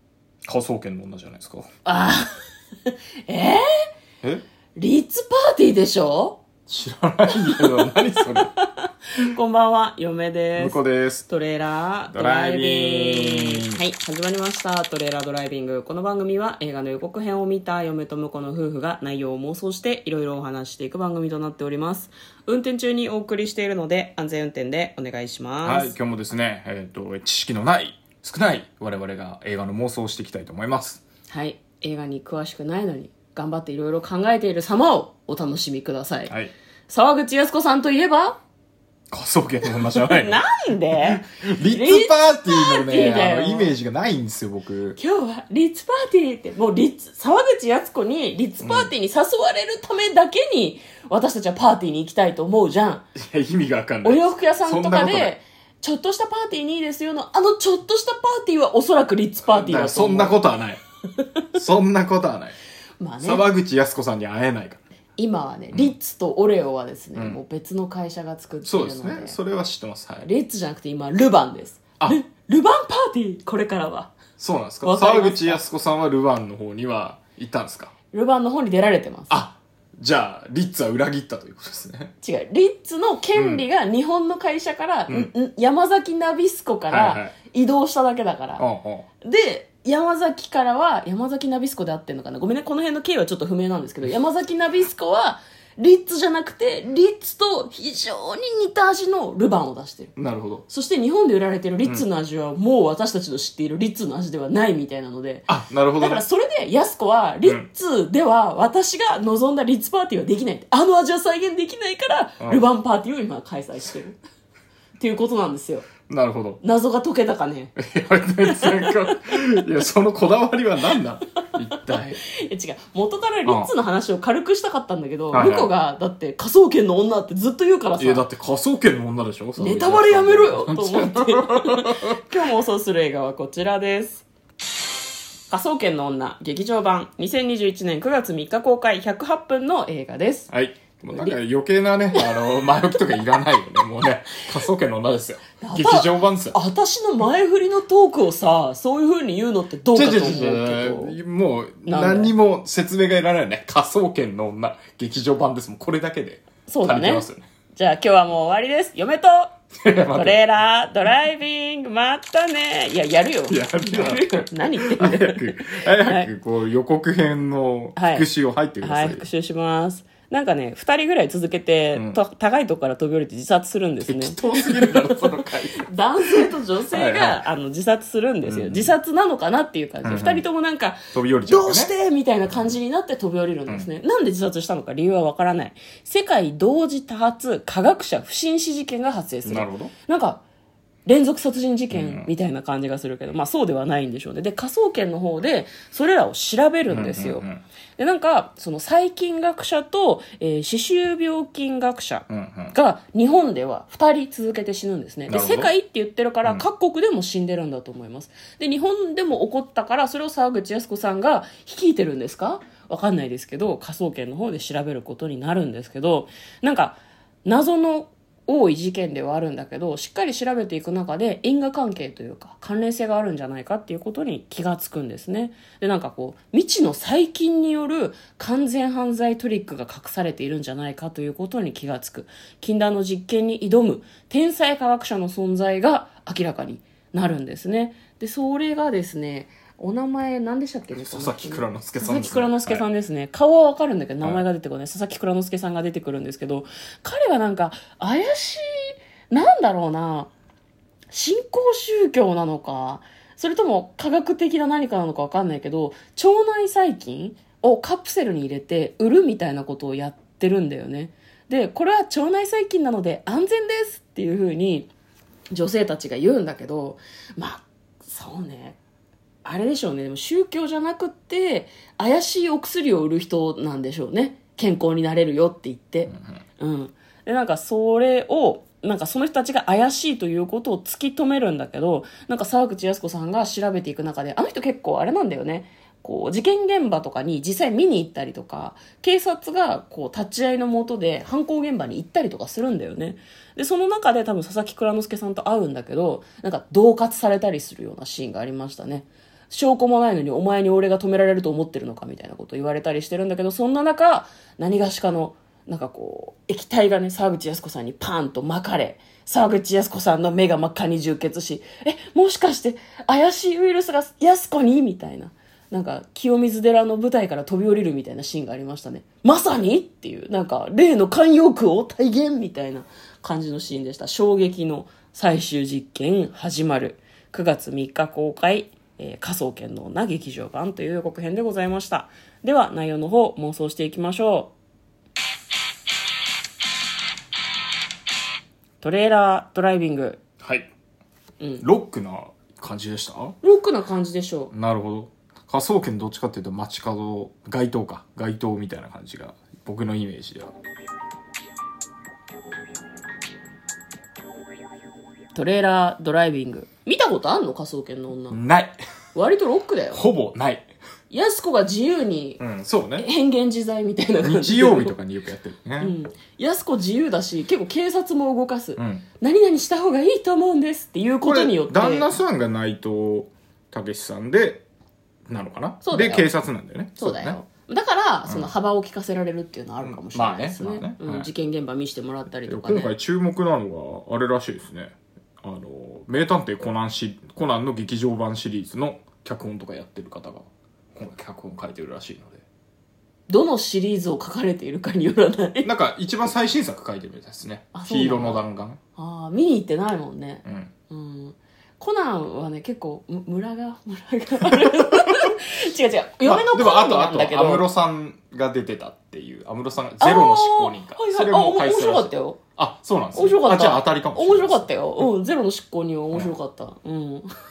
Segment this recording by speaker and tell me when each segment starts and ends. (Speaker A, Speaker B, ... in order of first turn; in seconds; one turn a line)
Speaker A: 0.5-1.7
Speaker B: 1.9-2.3
Speaker B: 2.9-3.6
Speaker B: 4.8-6.4
Speaker A: 6.7-8.5
Speaker B: 7.3-25.9
Speaker A: 10.6-11.3
Speaker A: 12.1-13.8
Speaker A: 25.6-31.0
Speaker B: 31.3-36.3
Speaker A: 36.3-36.5
Speaker B: 36.9-38.4
Speaker A: 39.1-40.4
Speaker B: 39.7-43.7
Speaker A: 41.1-45.0
Speaker B: 45.0-53.0
Speaker A: 48.6-48.9
Speaker A: 53.1-55.4
Speaker B: 54.0-60.4
Speaker A: 59.4-60.8
Speaker A: 61.5-62.6
Speaker B: 63.0-63.4
Speaker A: 63.2-64.8
Speaker B: 65.2-69.4
Speaker A: 68.6-70.3
Speaker B: 70.2-74.2
Speaker A: 74.4-77.9
Speaker B: 74.8-75.6
Speaker B: 78.1-79.3
Speaker A: 79.3-82.1
Speaker B: 82.2-88.7
Speaker A: 83.3-83.6
Speaker A: 86.9-87.3
Speaker A: 88.6-89.1
Speaker B: 89.2-100.2
Speaker A: 100.2-100.7
Speaker B: 100.7-105.5
Speaker A: 105.5-106.2
Speaker B: 106.0-114.2
Speaker B: 115.0-115.9
Speaker A: 116.1-116.6
Speaker B: 116.6-117.8
Speaker A: 117.8-122.2
Speaker B: 118.5-119.4
Speaker B: 121.7-128.3
Speaker A: 123.5-123.7
Speaker A: 125.3-125.7
Speaker A: 128.0-132.2
Speaker B: 129.6-134.3
Speaker B: 135.5-140.5
Speaker A: 140.5-146.6
Speaker B: 145.6-151.2
Speaker A: 149.9-157.5
Speaker B: 151.9-152.3
Speaker B: 156.7-166.3
Speaker A: 159.8-160.4
Speaker A: 163.5-169.2
Speaker B: 168.0-168.3
Speaker B: 168.8-190.4
Speaker A: 174.1-177.4
Speaker A: 178.4-178.9
Speaker A: 180.0-180.4
Speaker A: 181.1-181.9
Speaker A: 189.4-189.9
Speaker B: 191.1-197.4
Speaker A: 191.9-192.3
Speaker A: 196.9-197.6
Speaker B: 198.0-250.3
Speaker A: 202.3-202.8
Speaker A: 205.3-205.7
Speaker A: 241.0-242.8
Speaker B: 251.1-264.9
Speaker B: 265.5-268.8
Speaker B: 269.4-334.5
Speaker B: 338.8-340.2
Speaker A: 340.4-340.7
Speaker B: 341.4-341.7
Speaker A: 341.6-343.4
Speaker B: 343.4-344.5
Speaker A: 344.5-350.5
Speaker B: 355.4-358.4
Speaker A: 358.3-358.8
Speaker B: 359.1-360.0
Speaker A: 359.9-360.7
Speaker B: 361.1-362.4
Speaker A: 362.4-363.1
Speaker B: 363.0-364.9
Speaker A: 364.2-366.0
Speaker B: 365.8-372.1
Speaker A: 368.8-369.1
Speaker A: 371.2-374.6
Speaker A: 375.3-377.4
Speaker B: 375.8-376.3
Speaker B: 377.0-382.9
Speaker A: 378.3-378.5
Speaker A: 379.8-381.3
Speaker A: 382.4-392.4
Speaker B: 393.3-395.7
Speaker A: 395.6-398.8
Speaker B: 397.7-398.4
Speaker B: 399.0-407.7
Speaker A: 400.4-400.7
Speaker A: 406.2-414.7
Speaker B: 410.0-412.4
Speaker B: 413.1-417.3